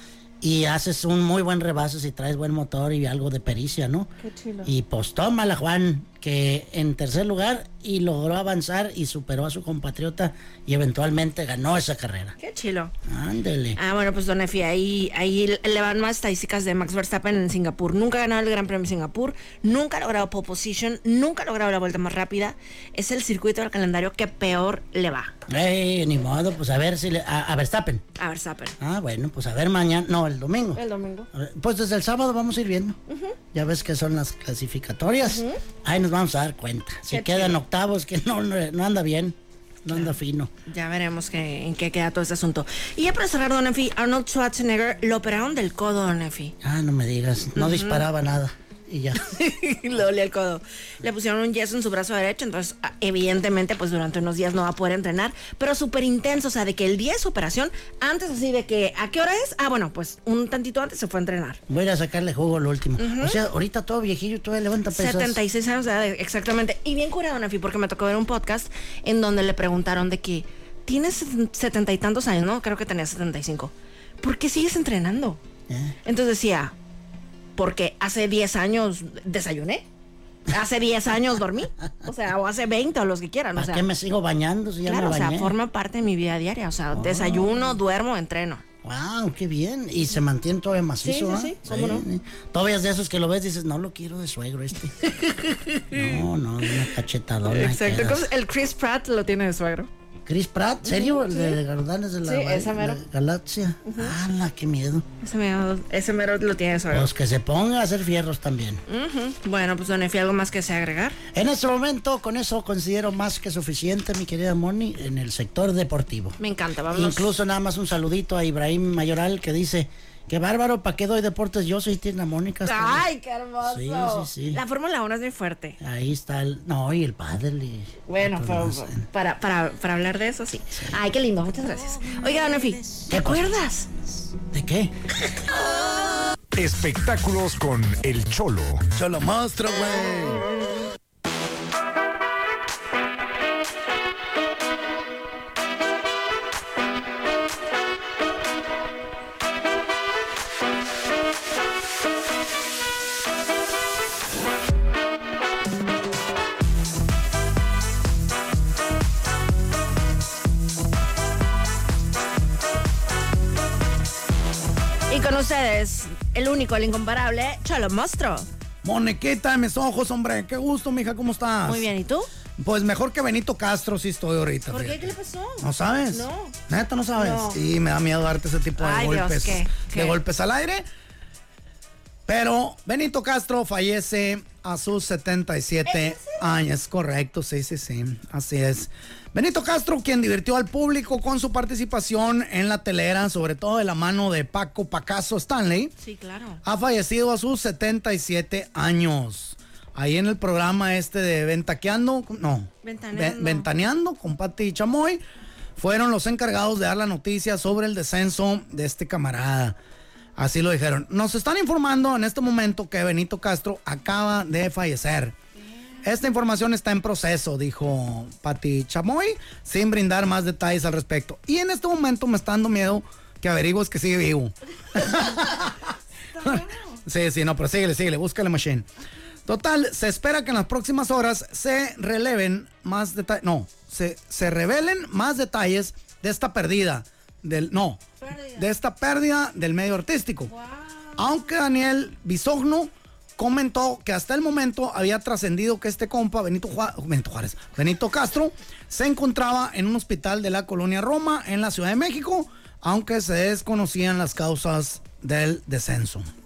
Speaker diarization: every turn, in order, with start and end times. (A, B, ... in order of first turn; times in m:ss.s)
0:00.4-0:04.1 A
0:04.2-0:04.7 B
0:04.6-0:12.4 A
0:12.4-0:12.9 B
0:13.1-0:13.8 A
0:13.8-0:25.4 B
0:25.5-0:28.0 A
0:28.2-0:28.8 B
0:28.8-0:33.0 A
0:30.8-0:31.3 B
0:33.1-0:33.4 B
0:33.5-0:40.5 A
0:35.2-0:35.6 B
0:37.1-0:37.6 B
0:40.7-0:46.6 B
0:46.6-0:49.2 A
0:47.6-0:48.1 B
0:49.2-1:01.6 B
1:01.7-1:05.4 A
1:03.0-1:03.4 B
1:04.9-1:15.4 B
1:15.7-1:16.0 A
1:16.0-1:16.7 B
1:17.6-1:19.8 B
1:20.5-1:23.8 B
1:23.6-1:25.6 A
1:24.9-1:28.6 B
1:26.9-1:27.7 A
1:28.8-1:35.1 A
1:31.0-1:32.0 B
1:35.0-1:36.8 B
1:35.9-1:38.3 A
1:37.4-1:39.9 B
1:40.3-1:45.1 A
1:40.8-1:41.6 B
1:42.2-1:43.0 B
1:43.8-1:44.2 B
1:45.2-1:47.1 B
1:46.9-1:48.8 A
1:48.9-1:51.2 B
1:51.3-1:56.4 A
1:56.4-1:57.3 B
1:56.9-2:03.1 A
2:02.6-2:05.8 B
2:03.6-2:04.6 A
2:05.8-2:09.0 A
2:08.1-2:13.9 B
2:13.1-2:13.5 A
2:14.4-2:14.9 A
2:16.5-2:18.9 C
2:18.9-2:20.5 D
2:45.1-2:48.5 B
2:48.8-2:51.9 D
2:51.6-2:52.3 B
2:52.6-3:00.9 D
2:54.7-2:56.6 B
2:57.2-2:57.6 B
2:58.8-3:00.2 B
3:02.3-3:15.9 D
3:05.8-3:06.4 B
3:16.0-3:16.6 B
3:16.6-3:25.2 D
3:22.8-3:23.7 B
3:25.8-3:29.8 D
3:30.4-3:35.4 D
3:36.0-3:48.9 D
3:46.4-3:47.0 B
3:49.5-4:00.5 D
3:58.2-3:58.6 B
4:00.5-4:01.3 B
4:01.2-4:16.3 D